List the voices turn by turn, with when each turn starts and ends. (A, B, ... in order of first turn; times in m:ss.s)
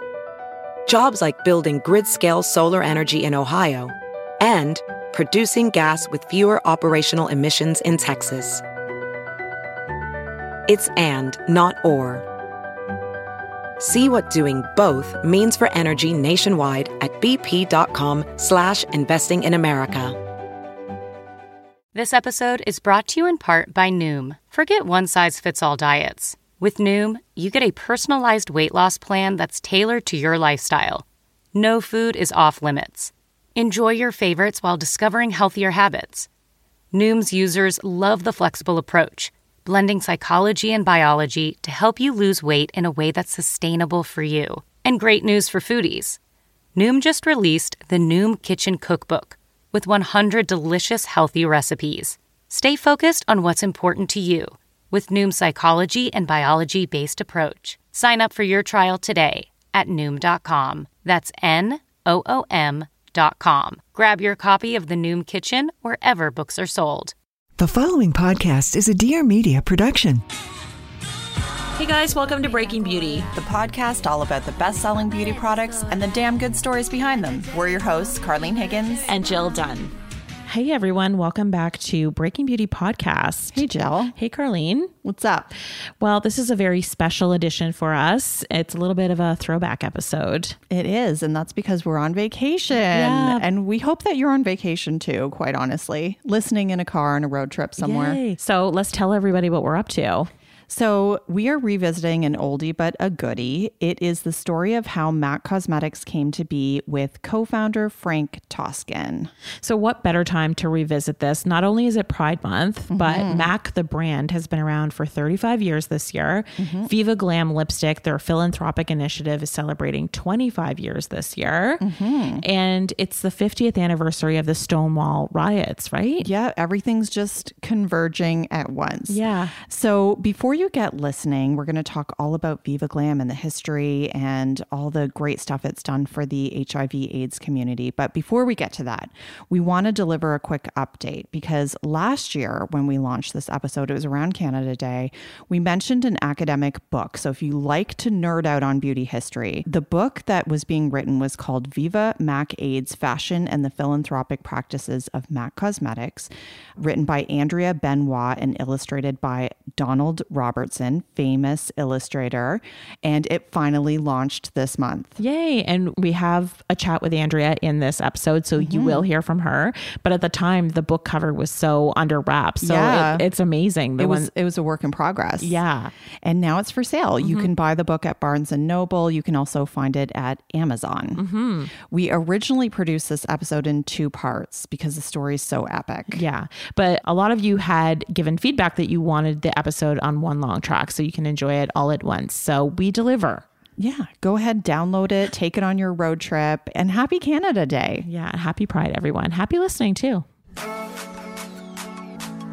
0:00.9-0:08.6 A
0:10.7-0:12.2 A
0:13.8-0:20.2 A
0:21.9-0:36.3 B
0:36.9-0:46.2 B
0:46.8-1:07.1 B
1:07.6-1:10.2 C
1:11.8-1:13.3 D
1:13.3-1:19.1 E
1:19.1-1:19.9 D
1:20.5-1:24.9 D
1:23.5-1:24.2 E
1:25.0-1:25.5 E
1:25.8-1:30.6 D
1:30.7-1:38.2 E
1:32.9-1:33.4 D
1:37.8-1:40.3 D
1:40.7-1:49.3 E
1:49.6-2:01.8 D
1:52.9-1:53.5 E
1:56.6-1:56.9 E
2:01.8-2:02.4 E
2:02.4-2:06.3 D
2:06.2-2:45.2 E
2:09.1-2:09.5 D
2:45.2-2:54.3 D
2:48.6-2:49.1 E
2:52.6-2:53.3 E
2:54.0-2:55.6 E
2:55.4-2:55.9 D
2:56.2-3:01.2 E
2:57.2-2:57.5 D
3:01.2-3:01.7 D
3:01.8-3:06.2 E
3:06.1-3:13.4 D
3:13.8-3:18.1 E
3:18.1-3:20.3 D